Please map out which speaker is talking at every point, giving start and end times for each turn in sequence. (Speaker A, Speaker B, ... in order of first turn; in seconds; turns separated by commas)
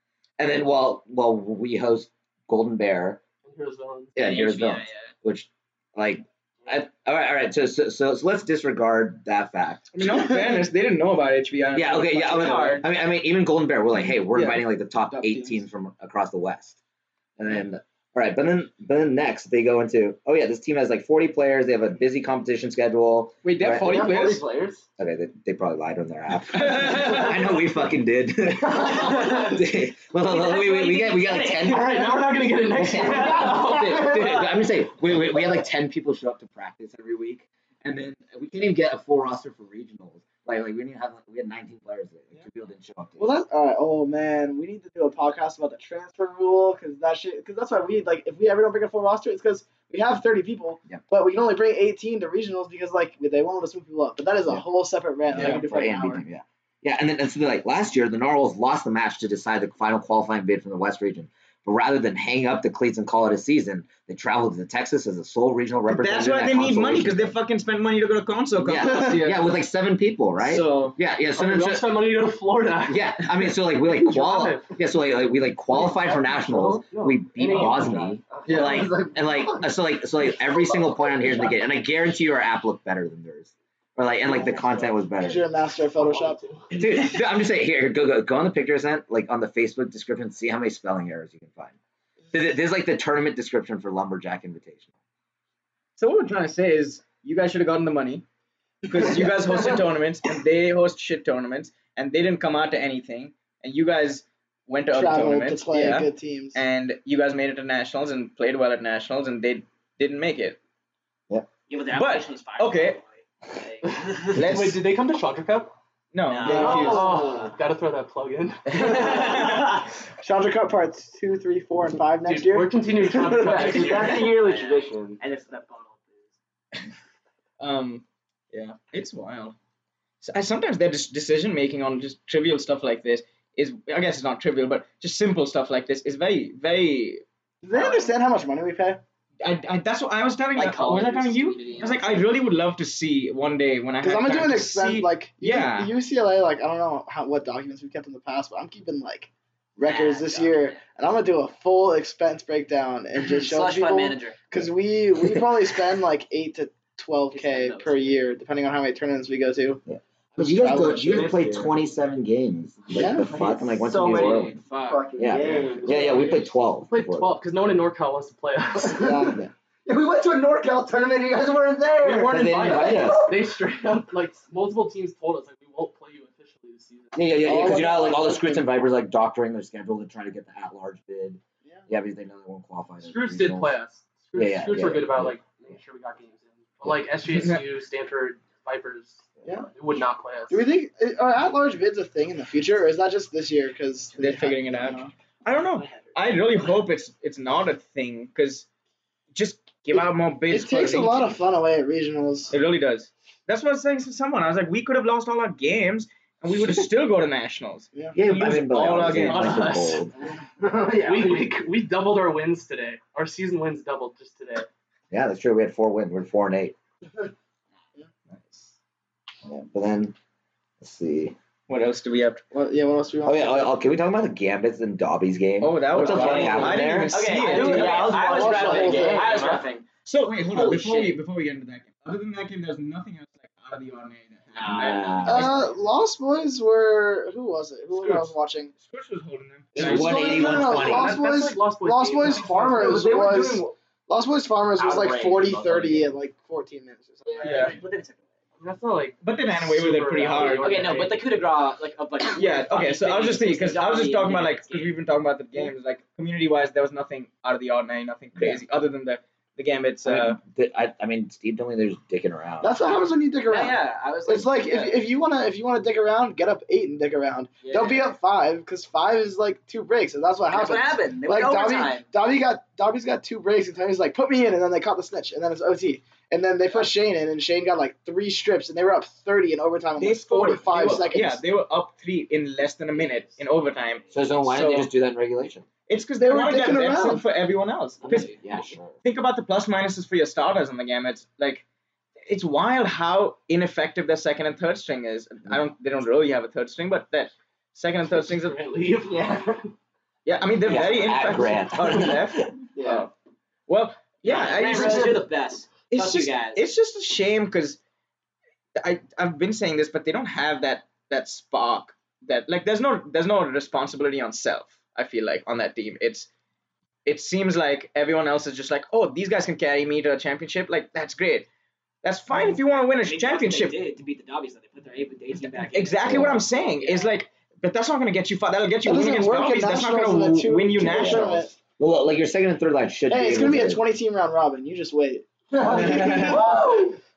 Speaker A: 0.4-3.2, Speaker B: 3.4-4.2, Speaker A: 4.2-10.2, Speaker C: 4.2-5.1, Speaker D: 9.9-12.9, Speaker A: 11.7-16.8, Speaker B: 12.3-12.8, Speaker D: 14.3-14.6, Speaker A: 17.4-24.0, Speaker D: 23.4-24.4, Speaker E: 23.8-24.8, Speaker A: 25.0-32.1, Speaker C: 30.3-31.3, Speaker B: 30.7-34.5, Speaker A: 32.7-43.3, Speaker F: 43.2-56.2, Speaker A: 55.3-67.3, Speaker D: 65.9-69.5, Speaker A: 68.6-72.0, Speaker D: 70.4-71.0, Speaker B: 71.3-74.7, Speaker A: 72.9-85.4, Speaker B: 76.3-78.2, Speaker E: 78.4-79.2, Speaker D: 78.5-78.8, Speaker F: 85.1-86.4, Speaker B: 86.0-86.8, Speaker A: 86.7-91.8, Speaker A: 92.3-94.9, Speaker D: 96.0-98.2, Speaker D: 98.9-110.6, Speaker F: 104.9-106.6, Speaker C: 111.7-114.4, Speaker D: 111.9-113.0, Speaker B: 113.9-115.7, Speaker D: 114.3-114.8, Speaker D: 116.1-117.1, Speaker C: 116.2-117.5, Speaker B: 116.5-119.3, Speaker F: 116.5-116.9, Speaker E: 116.7-117.0, Speaker F: 118.8-119.6, Speaker D: 118.9-119.6, Speaker F: 120.2-124.0, Speaker B: 122.2-124.3, Speaker E: 123.5-125.2, Speaker C: 123.5-126.3, Speaker D: 127.6-129.6, Speaker D: 130.2-137.2, Speaker F: 137.6-139.0, Speaker D: 137.8-138.0, Speaker D: 139.4-145.9, Speaker C: 140.5-142.2, Speaker F: 144.0-159.8, Speaker C: 149.8-150.8, Speaker C: 153.2-154.4, Speaker C: 157.3-158.2, Speaker A: 159.9-164.6, Speaker F: 160.4-161.4, Speaker C: 161.1-161.7, Speaker F: 162.9-163.4, Speaker C: 163.3-166.2, Speaker E: 163.8-166.4, Speaker A: 165.2-167.3, Speaker B: 166.9-169.3, Speaker F: 169.0-169.4, Speaker E: 169.9-173.3, Speaker C: 170.1-170.7, Speaker C: 171.5-172.9, Speaker B: 172.0-177.2, Speaker A: 172.3-173.2, Speaker A: 177.1-183.7, Speaker F: 177.4-178.7, Speaker B: 183.0-189.2, Speaker A: 184.3-185.4, Speaker D: 187.3-187.6, Speaker F: 189.4-189.7, Speaker B: 189.7-190.6, Speaker F: 190.5-195.1, Speaker D: 194.2-198.7, Speaker C: 195.8-196.2, Speaker D: 199.3-201.3, Speaker F: 199.9-202.6, Speaker D: 202.5-209.8, Speaker F: 207.9-208.2, Speaker A: 208.1-210.1, Speaker B: 209.2-210.0, Speaker C: 210.6-211.5, Speaker B: 211.0-214.7, Speaker A: 215.1-216.7, Speaker D: 218.3-218.7, Speaker A: 219.4-220.1, Speaker A: 220.8-221.3, Speaker D: 221.7-222.4, Speaker F: 222.5-223.7, Speaker A: 223.2-227.2, Speaker D: 225.6-228.4, Speaker C: 225.9-229.8, Speaker F: 227.7-229.5, Speaker E: 228.1-229.2, Speaker D: 229.1-235.6, Speaker C: 230.4-231.2, Speaker C: 234.5-235.4, Speaker A: 234.6-235.6, Speaker F: 235.2-238.7, Speaker D: 237.9-240.6, Speaker F: 239.7-247.8, Speaker A: 239.8-241.2, Speaker B: 240.5-243.1, Speaker C: 242.3-243.7, Speaker C: 244.8-246.1, Speaker C: 247.2-248.2, Speaker D: 247.4-247.8, Speaker B: 248.6-251.2, Speaker D: 249.2-251.0, Speaker C: 250.3-254.9, Speaker D: 252.3-260.4, Speaker A: 258.4-258.6, Speaker A: 260.0-262.7, Speaker F: 262.6-281.4, Speaker C: 263.4-265.0, Speaker C: 267.6-268.1, Speaker C: 270.5-272.1, Speaker D: 280.0-284.9, Speaker A: 284.1-285.6, Speaker D: 285.9-291.6, Speaker F: 286.2-287.2, Speaker C: 288.0-288.4, Speaker A: 288.3-288.9, Speaker D: 292.3-298.6, Speaker B: 298.2-299.7, Speaker C: 299.1-299.6, Speaker D: 300.2-303.1, Speaker A: 300.6-302.5, Speaker D: 303.7-305.3, Speaker C: 304.2-306.6, Speaker D: 305.9-307.8, Speaker D: 308.8-316.3, Speaker D: 317.1-321.5, Speaker D: 322.0-323.8, Speaker C: 323.0-327.1, Speaker D: 325.4-331.3, Speaker A: 326.0-326.4, Speaker F: 328.8-331.5, Speaker A: 330.9-333.8, Speaker F: 333.1-336.7, Speaker C: 335.6-336.9, Speaker A: 335.6-336.4, Speaker D: 335.8-336.4